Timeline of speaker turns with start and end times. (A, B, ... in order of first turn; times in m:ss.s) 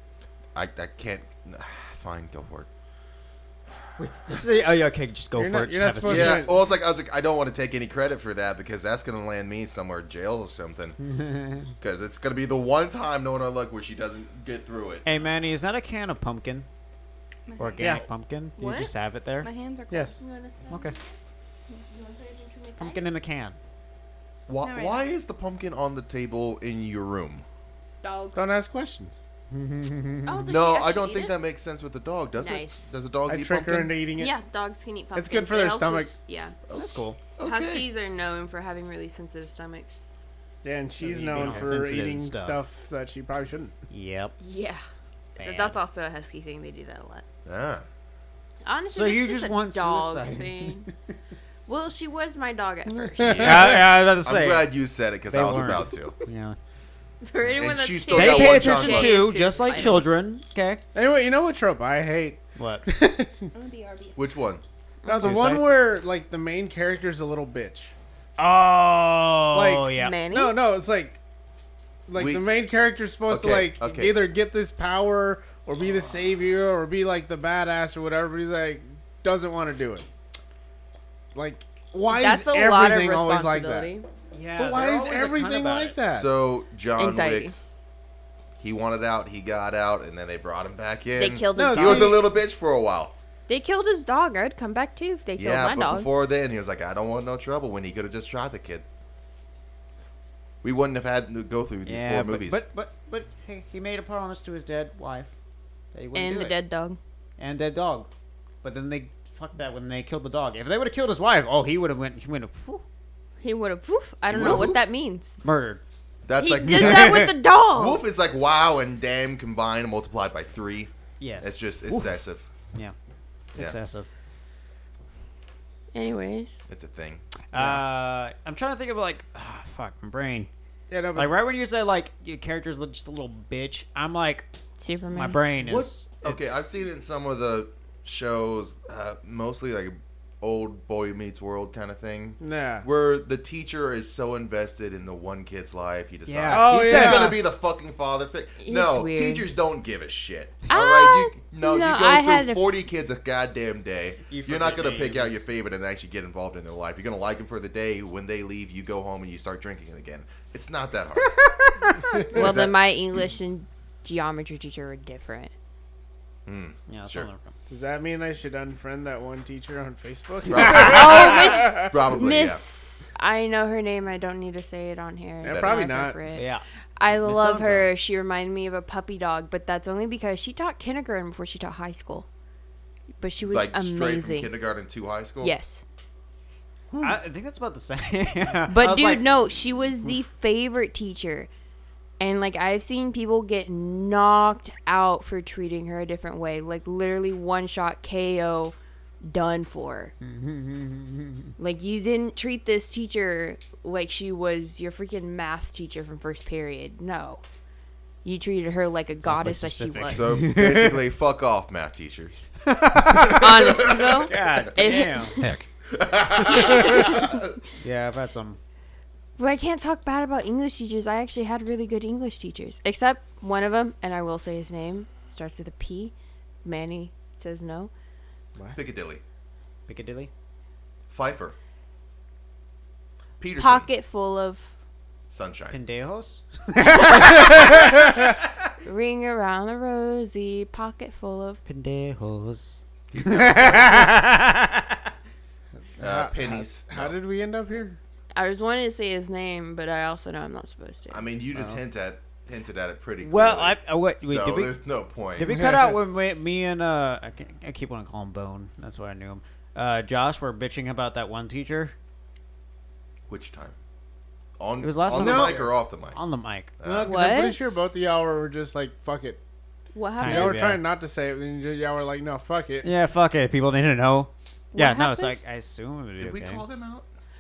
0:00.5-0:02.7 A
0:04.0-0:06.4 B
0:05.4-0:06.5 C
0:06.0-0:11.0 A
0:11.0-0:11.7 B
0:11.8-0:15.0 A
0:15.0-0:16.7 B
0:17.5-0:18.0 D
0:17.6-0:19.5 B
0:18.6-0:18.9 E
0:19.4-0:20.2 D
0:19.9-0:20.2 C
0:20.2-0:21.0 E
0:20.7-0:21.0 B
0:21.7-0:23.2 E
0:22.8-0:23.6 B
0:24.5-0:27.4 A
0:24.6-0:25.0 D
0:28.0-0:28.6 D
0:28.3-0:29.2 C
0:29.5-0:30.4 B
0:30.2-0:31.4 E
0:30.5-0:34.0 A
0:32.4-0:33.0 E
0:33.2-0:34.4 C
0:34.2-0:36.6 E
0:35.1-0:36.1 C
0:36.7-0:37.9 A
0:36.7-0:37.2 B
0:37.4-0:40.1 E
0:40.6-0:43.7 C
0:41.0-0:42.6 B
0:43.9-0:44.4 B
0:44.4-0:44.8 E
0:45.4-0:45.8 B
0:45.4-0:47.2 E
0:47.4-0:47.8 A
0:48.6-0:50.9 E
0:48.9-0:50.9 B
0:51.6-0:53.7 E
0:53.2-0:56.2 A
0:53.4-0:56.6 B
0:57.2-1:00.1 E
0:57.4-0:59.2 A
0:58.1-1:00.8 B
1:00.9-1:03.5 C
1:02.6-1:02.9 B
1:03.5-1:04.2 D
1:04.2-1:04.6 A
1:05.0-1:05.4 E
1:05.0-1:07.9 C
1:05.2-1:05.8 B
1:08.4-1:10.1 B
1:09.5-1:11.2 C
1:10.0-1:10.6 E
1:12.1-1:20.0 C
1:12.2-1:12.5 A
1:13.3-1:14.3 A
1:21.3-1:23.9 C
1:22.1-1:24.1 E
1:24.3-1:26.0 B
1:24.6-1:26.3 C
1:26.1-1:27.5 A
1:27.0-1:27.6 E
1:28.6-1:33.1 A
1:31.2-1:32.2 E
1:31.5-1:32.2 C
1:33.5-1:36.1 E
1:35.4-1:38.8 A
1:40.6-1:42.6 A
1:41.8-1:45.3 B
1:45.9-1:46.6 B
1:46.1-1:47.0 E
1:47.4-1:48.1 B
1:48.6-1:52.8 B
1:53.4-1:55.4 E
1:54.3-1:54.8 A
1:55.4-1:55.8 B
1:56.2-2:02.4 A
1:56.4-1:58.0 E
1:56.7-1:57.3 B
2:01.2-2:02.1 B
2:03.5-2:04.1 B
2:05.9-2:06.6 E
2:06.7-2:07.8 A
2:07.5-2:10.5 B
2:10.9-2:11.3 C
2:11.1-2:14.5 B
2:14.8-2:15.4 E
2:15.1-2:16.6 B
2:15.6-2:41.4 A
2:22.4-2:22.9 C
2:26.2-2:27.4 B
2:26.5-2:27.4 C
2:28.6-2:29.5 E
2:30.7-2:32.7 E
2:34.3-2:35.4 B
2:41.4-2:42.2 B
2:42.3-2:45.5 E
2:42.3-2:42.8 A
2:46.4-2:47.3 A
2:46.9-2:47.5 B
2:47.7-2:51.9 C
2:50.4-2:52.6 A
2:50.6-3:02.3 E
2:55.4-2:56.2 C
2:55.5-2:55.8 A
2:56.3-2:56.6 B
2:57.2-2:57.9 B
3:03.2-3:04.5 E
3:03.4-3:05.5 A
3:05.4-3:05.8 E
3:07.0-3:09.3 B
3:08.7-3:11.5 E
3:12.2-3:20.1 E
3:20.2-3:21.5 B
3:21.6-3:27.4 E
3:28.2-3:30.4 E
3:29.2-3:31.1 B
3:30.1-3:34.3 A
3:32.6-3:35.4 B
3:33.2-3:35.5 E
3:35.4-3:37.5 A
3:36.4-3:37.3 E
3:37.8-3:38.6 B
3:39.4-3:46.1 E
3:46.6-3:47.9 E
3:48.7-3:49.2 A
3:49.9-3:50.3 B
3:51.1-3:51.6 A
3:53.4-3:53.9 A
3:53.6-3:54.7 E
3:55.3-3:55.8 A
3:55.7-3:57.9 B
3:57.4-3:57.8 E
3:57.5-3:57.8 C
3:58.8-4:01.6 E
4:01.6-4:05.1 B
4:03.1-4:04.1 A
4:06.0-4:08.0 C
4:06.0-4:07.2 A
4:08.3-4:11.3 E
4:11.1-4:15.6 A
4:13.2-4:14.8 B
4:15.4-4:21.9 B
4:15.4-4:16.0 C
4:23.3-4:23.8 A
4:24.6-4:26.2 A
4:24.8-4:26.7 B
4:25.1-4:25.7 C
4:26.8-4:27.2 A
4:26.8-4:29.4 C
4:27.0-4:27.6 E
4:29.9-4:30.6 E
4:30.2-4:30.8 B
4:30.2-4:32.9 C
4:32.8-4:36.6 B
4:34.7-4:35.4 E
4:36.2-4:37.1 A